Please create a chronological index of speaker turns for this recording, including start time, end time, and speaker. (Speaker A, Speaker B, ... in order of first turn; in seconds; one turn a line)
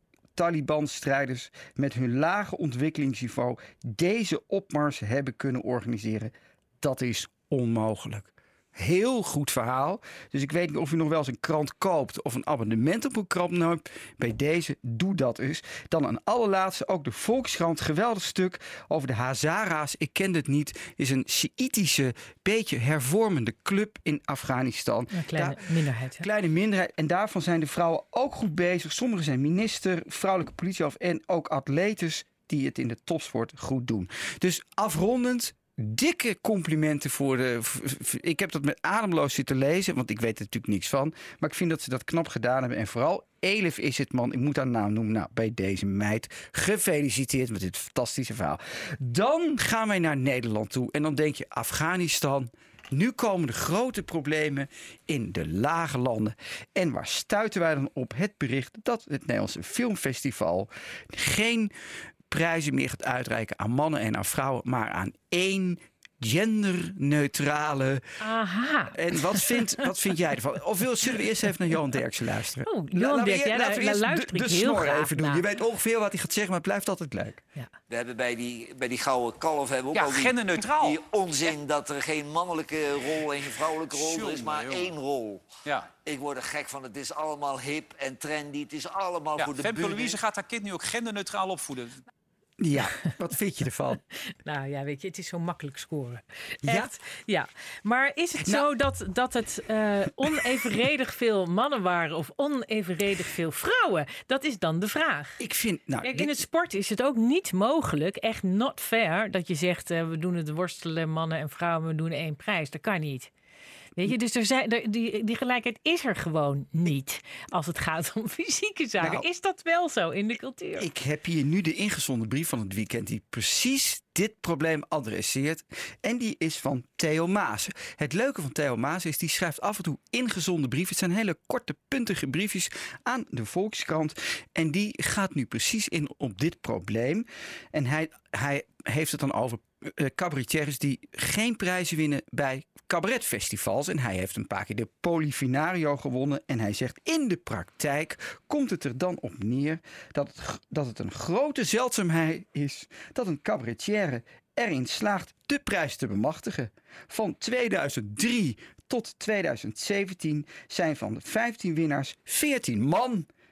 Speaker A: 0.3-61.7
Speaker B: 25.1-26.3
Speaker A: 62.3-68.0
Speaker B: 68.2-69.6
Speaker A: 68.9-77.4
Speaker B: 72.6-75.5
Speaker C: 77.9-90.2
Speaker D: 79.9-81.0
Speaker D: 83.8-84.9
Speaker D: 89.4-92.0
Speaker A: 92.6-94.0
Speaker B: 94.3-105.4
Speaker A: 96.6-96.9
Speaker A: 98.4-98.7
Speaker A: 105.4-106.4
Speaker B: 106.0-113.3
Speaker B: 114.0-120.9
Speaker A: 119.0-119.2
Speaker A: 120.8-163.3